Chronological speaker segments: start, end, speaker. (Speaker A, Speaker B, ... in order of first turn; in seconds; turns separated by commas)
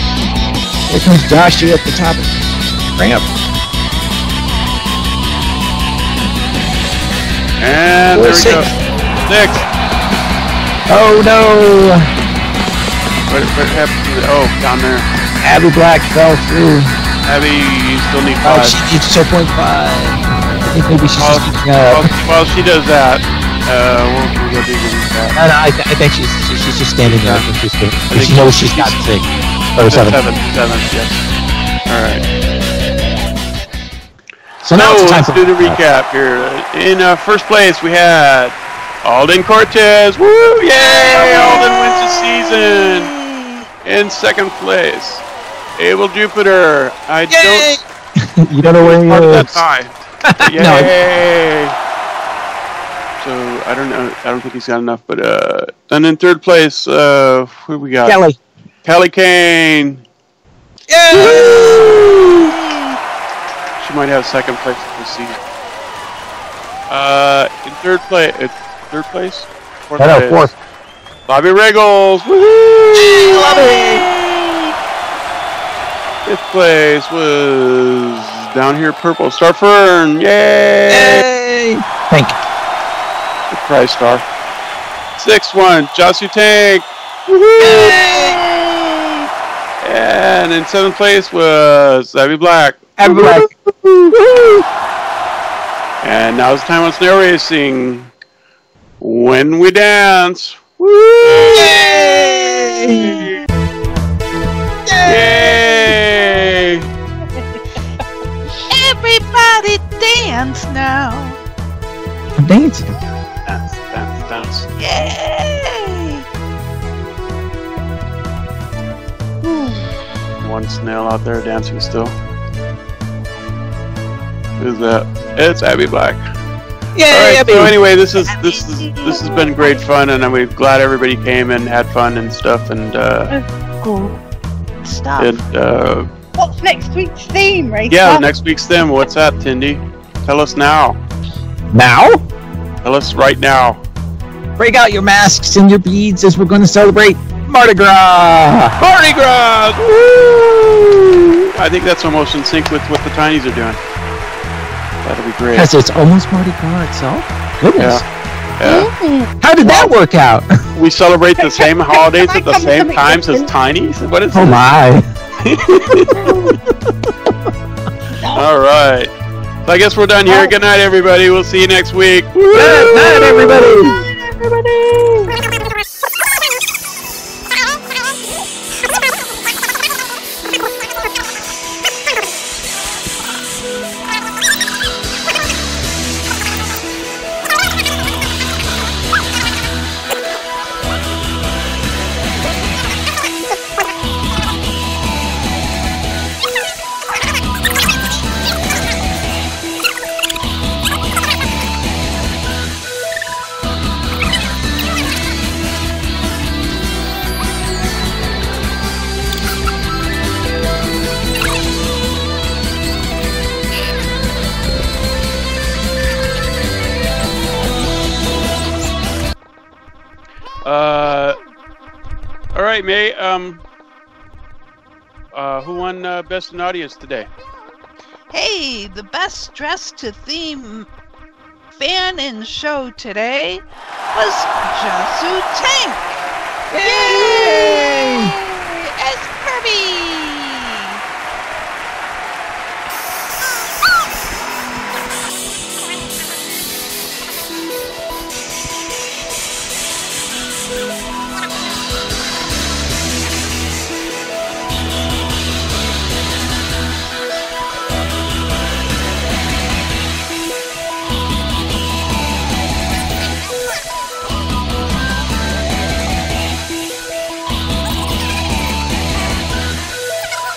Speaker A: 0.9-3.3, Speaker B: 7.6-8.7, Speaker A: 8.1-8.7, Speaker B: 9.2-9.7, Speaker A: 10.9-12.1, Speaker B: 13.3-15.1, Speaker A: 15.4-17.0, Speaker B: 17.2-18.8, Speaker A: 18.4-22.1, Speaker B: 21.1-25.4, Speaker A: 25.4-30.2, Speaker B: 27.0-27.5, Speaker B: 28.1-29.0, Speaker B: 29.9-31.2, Speaker B: 31.9-32.2, Speaker A: 34.6-35.8, Speaker B: 34.6-43.1, Speaker C: 41.2-43.7, Speaker A: 41.2-41.6, Speaker B: 43.8-45.2, Speaker B: 45.8-47.7, Speaker A: 47.3-49.5, Speaker B: 48.8-51.7, Speaker A: 50.3-50.9, Speaker B: 53.2-58.2, Speaker A: 58.0-58.4, Speaker B: 58.8-60.0, Speaker A: 60.9-62.5, Speaker B: 61.1-62.1, Speaker C: 62.4-63.0, Speaker B: 63.8-65.4, Speaker B: 66.9-70.5, Speaker A: 70.0-70.5, Speaker B: 71.3-73.2, Speaker A: 72.9-74.1, Speaker C: 73.4-74.7, Speaker B: 76.2-81.2, Speaker A: 80.9-82.4, Speaker B: 83.5-84.2, Speaker B: 85.2-88.0, Speaker A: 87.6-88.4, Speaker C: 88.1-89.2, Speaker B: 89.8-93.4, Speaker A: 93.0-94.6, Speaker B: 96.0-98.1, Speaker B: 99.0-101.9, Speaker A: 101.4-103.3, Speaker B: 102.9-103.4, Speaker A: 104.9-105.7, Speaker B: 105.0-106.8, Speaker D: 107.3-107.8, Speaker C: 108.7-111.4, Speaker A: 112.4-112.9, Speaker B: 113.4-114.7, Speaker C: 114.8-116.2, Speaker B: 120.4-122.1, Speaker B: 124.6-126.2, Speaker A: 126.9-127.7, Speaker B: 127.1-133.3, Speaker C: 133.8-134.1, Speaker C: 134.8-135.4, Speaker B: 135.2-136.1, Speaker D: 136.4-138.2, Speaker B: 137.9-141.0, Speaker A: 141.7-142.2, Speaker B: 142.8-143.8, Speaker A: 144.6-148.8, Speaker B: 148.8-150.6, Speaker A: 150.2-151.4, Speaker B: 151.5-153.8, Speaker B: 155.0-155.7, Speaker A: 155.5-158.0, Speaker B: 157.8-158.0, Speaker B: 158.6-158.9, Speaker D: 158.6-159.8, Speaker A: 159.4-160.5, Speaker B: 160.7-164.6, Speaker D: 161.5-163.5, Speaker A: 164.3-165.1, Speaker B: 165.4-166.2, Speaker D: 166.1-166.5, Speaker A: 166.5-166.9, Speaker B: 168.3-169.1, Speaker B: 169.7-172.8, Speaker D: 170.3-170.5, Speaker A: 172.5-173.9, Speaker B: 220.6-221.4, Speaker B: 222.5-223.6, Speaker B: 225.3-227.3, Speaker C: 228.3-230.9, Speaker C: 231.8-236.3, Speaker A: 236.7-238.3, Speaker C: 236.8-240.7